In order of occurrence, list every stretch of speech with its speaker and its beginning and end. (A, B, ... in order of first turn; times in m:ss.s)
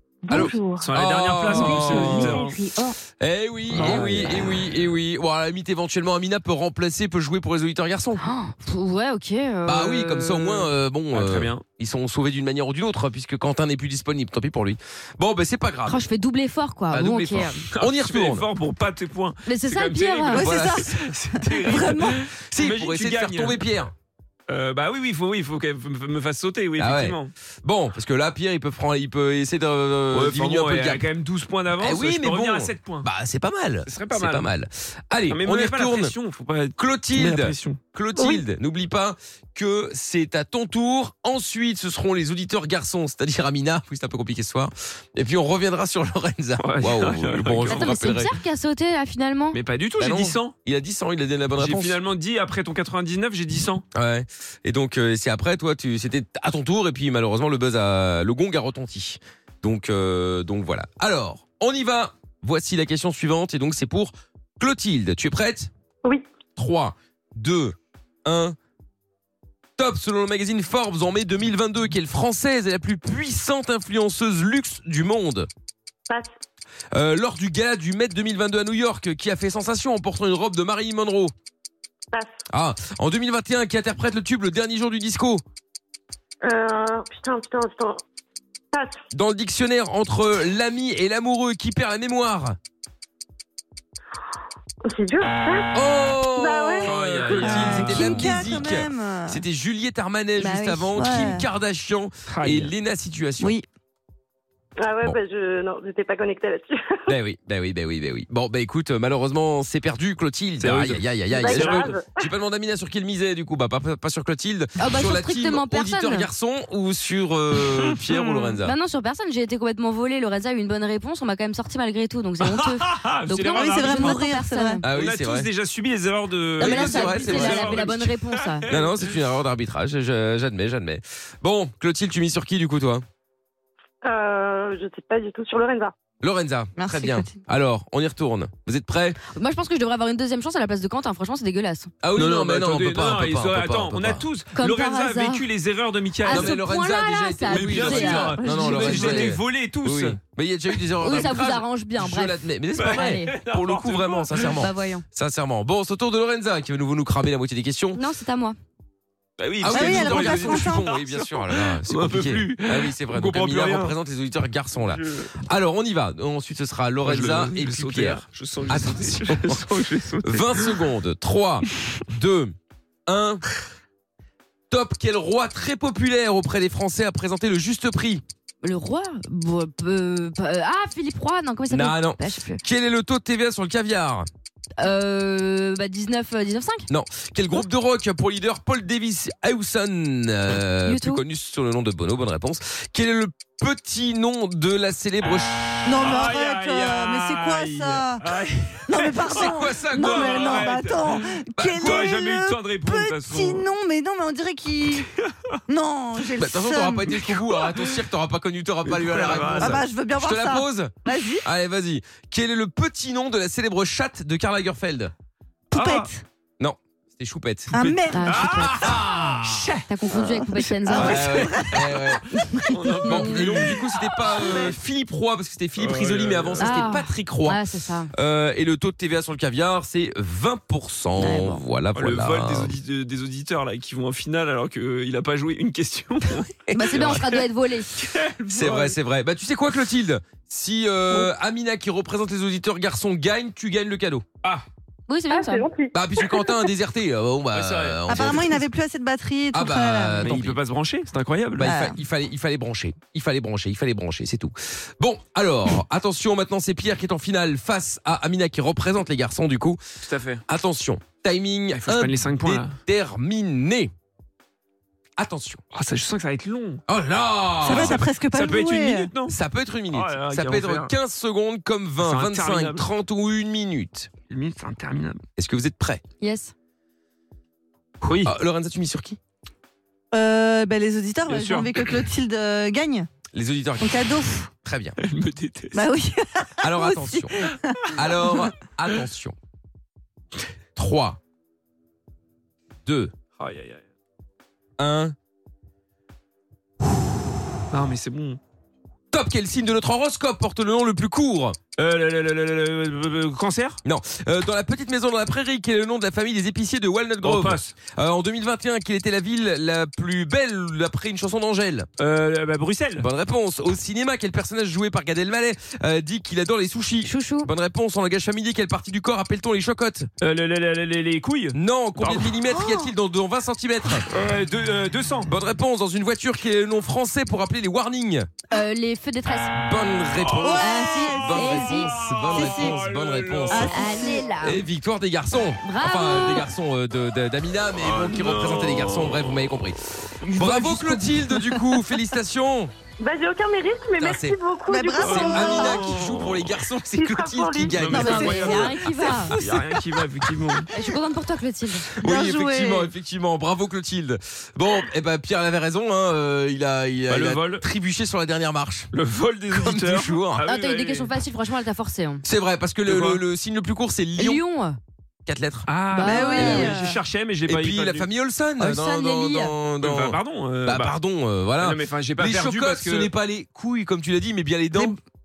0:00.2-0:00.9 A
0:00.3-0:02.4 B
0:00.3-0:02.6 C
0:01.7-0:02.9 A
0:03.1-0:08.2 B
0:03.7-0:04.4 C
0:03.7-0:04.5 D
0:08.2-0:10.7 D
0:09.6-0:16.0 B
0:11.1-0:11.6 C
0:15.9-0:17.6 D
0:16.9-0:18.5 B
0:17.7-0:23.6 C
0:19.5-0:20.5 D
0:20.3-0:21.1 B
0:20.3-0:22.2 E
0:22.2-0:23.9 B
0:24.5-0:27.3 C
0:26.8-0:31.1 B
0:30.1-0:33.1 C
0:31.8-0:36.1 B
0:33.9-0:34.5 C
0:35.3-0:37.8 C
0:36.8-0:48.4 B
0:38.2-0:38.4 A
0:46.6-0:48.1 C
0:47.7-0:49.6 D
0:49.5-0:50.5 C
0:50.0-0:52.0 B
0:51.6-0:53.8 C
0:53.9-1:05.7 B
1:06.6-1:08.6 B
1:09.8-1:15.5 B
1:16.9-1:21.3 B
1:22.5-1:25.4 B
1:26.4-1:28.0 A
1:28.7-1:29.0 A
1:29.1-1:32.6 B
1:34.9-1:37.8 A
1:35.8-1:43.6 B
1:36.8-1:38.7 C
1:37.4-1:39.4 E
1:40.4-1:41.3 D
1:40.9-1:41.4 E
1:42.3-1:42.7 C
1:43.4-1:43.7 E
1:44.8-1:47.1 A
1:47.1-1:58.7 B
1:50.6-1:52.0 C
1:51.3-1:52.2 A
1:54.8-1:56.3 D
1:57.6-1:58.5 C
1:58.6-2:04.8 D
2:02.4-2:04.2 C
2:03.4-2:04.8 E
2:04.8-2:05.5 B
2:04.8-2:09.1 C
2:06.6-2:08.0 B
2:06.6-2:08.7 D
2:08.7-2:13.0 B
2:14.0-2:15.9 A
2:16.2-2:19.2 B
2:16.8-2:17.4 E
2:19.4-2:21.9 D
2:22.0-2:24.2 B
2:22.2-2:26.6 C
2:24.5-2:25.5 D
2:26.2-2:29.3 D
2:26.3-2:38.0 B
2:27.5-2:30.2 C
2:31.0-2:33.3 D
2:32.8-2:34.6 C
2:34.6-2:35.0 D
2:37.9-2:38.6 D
2:39.4-2:43.9 C
2:39.6-2:52.6 B
2:39.7-2:40.9 E
2:44.8-2:45.3 C
2:47.0-2:50.9 C
2:53.1-2:53.4 B
2:54.7-2:58.2 B
2:58.6-3:02.6 D
3:01.7-3:04.3 B
3:04.8-3:06.9 D
3:06.9-3:15.9 B
3:10.8-3:11.2 D
3:15.8-3:23.7 C
3:15.9-3:18.2 E
3:18.9-3:25.1 E
3:19.2-3:20.6 B
3:21.6-3:22.1 B
3:25.7-3:27.2 E
3:26.4-3:35.1 B
3:27.1-3:28.0 C
3:28.9-3:29.8 C
3:29.3-3:31.4 E
3:35.7-3:36.1 C
3:35.7-3:36.2 E
3:36.6-3:37.8 B
3:37.7-3:38.5 E
3:37.7-3:44.7 C
3:38.1-3:39.0 D
3:38.5-3:40.3 B
3:39.9-3:41.3 D
3:40.9-3:42.0 E
3:40.9-3:42.3 B
3:42.6-3:43.7 D
3:43.0-3:52.8 B
3:45.8-3:46.9 C
3:46.6-3:48.1 D
3:51.2-3:51.6 D
3:52.0-3:59.0 C
3:56.7-3:57.9 D
3:56.8-3:57.2 B
3:58.5-4:04.2 B
4:05.1-4:05.7 D
4:05.3-4:06.6 A
4:05.9-4:08.6 B
4:07.5-4:08.4 C
4:08.1-4:10.4 E
4:09.5-4:10.6 B
4:10.2-4:11.8 C
4:11.6-4:19.8 B
4:11.6-4:12.0 E
4:20.0-4:20.4 C
4:20.5-4:23.9 B
4:21.7-4:22.7 C
4:25.2-4:25.6 B
4:25.7-4:26.8 C
4:26.9-4:28.0 B
4:27.6-4:29.1 E
4:27.6-4:29.4 C
4:29.3-4:34.1 B
4:29.9-4:30.9 C
4:32.0-4:32.9 C
4:34.3-4:35.2 C
4:35.4-4:36.0 B
4:36.2-4:36.5 D
4:38.0-4:38.3 C
4:38.2-4:39.2 B
4:40.1-4:43.1 E
4:41.3-4:42.1 C
4:43.3-4:45.0 B
4:43.8-4:44.5 E
4:45.0-4:45.8 C
4:45.7-4:48.5 E
4:46.6-4:47.4 B
4:47.9-4:49.4 B
4:50.8-4:51.2 B
4:52.9-4:53.1 B
4:53.4-4:53.8 C
4:54.8-4:55.2 B
4:57.7-4:58.4 C
4:59.1-5:01.6 B
5:01.8-5:03.8 C
5:03.8-5:11.9 B
5:07.2-5:07.8 C
5:12.0-5:13.1 C
5:13.0-5:20.1 B
5:17.0-5:17.5 D
5:20.2-5:22.4 C
5:21.5-5:24.1 B
5:22.5-5:22.9 E
5:24.1-5:25.3 C
5:25.3-5:28.3 B
5:28.5-5:29.6 D
5:29.5-5:33.8 B
5:30.2-5:30.6 C
5:30.4-5:31.4 E
5:30.6-5:31.9 D
5:31.4-5:33.8 C
5:32.3-5:32.8 E
5:33.5-5:34.3 E
5:33.6-5:34.6 D
5:34.4-5:42.7 B
5:35.6-5:36.5 D
5:37.8-5:39.5 C
5:40.2-5:42.0 E
5:43.0-5:45.9 A
5:44.0-5:44.4 B
5:44.7-5:46.0 E
5:45.0-5:46.6 C
5:45.1-5:48.7 B
5:46.9-5:47.8 A
5:47.7-5:50.7 C
5:47.8-5:50.9 E
5:47.9-5:49.4 D
5:50.7-5:51.9 D
5:52.0-5:52.9 E
5:52.0-5:58.9 B
5:57.1-5:57.7 C
5:58.9-6:01.1 C
5:59.5-6:00.4 B
6:00.4-6:02.2 D
6:02.2-6:04.4 B
6:02.8-6:03.2 C
6:04.2-6:04.8 D
6:05.3-6:05.7 B
6:05.7-6:08.1 C
6:05.9-6:06.8 D
6:06.0-6:07.0 E
6:06.3-6:06.8 B
6:07.5-6:15.0 B
6:08.6-6:09.6 D
6:09.8-6:11.0 C
6:11.6-6:13.1 C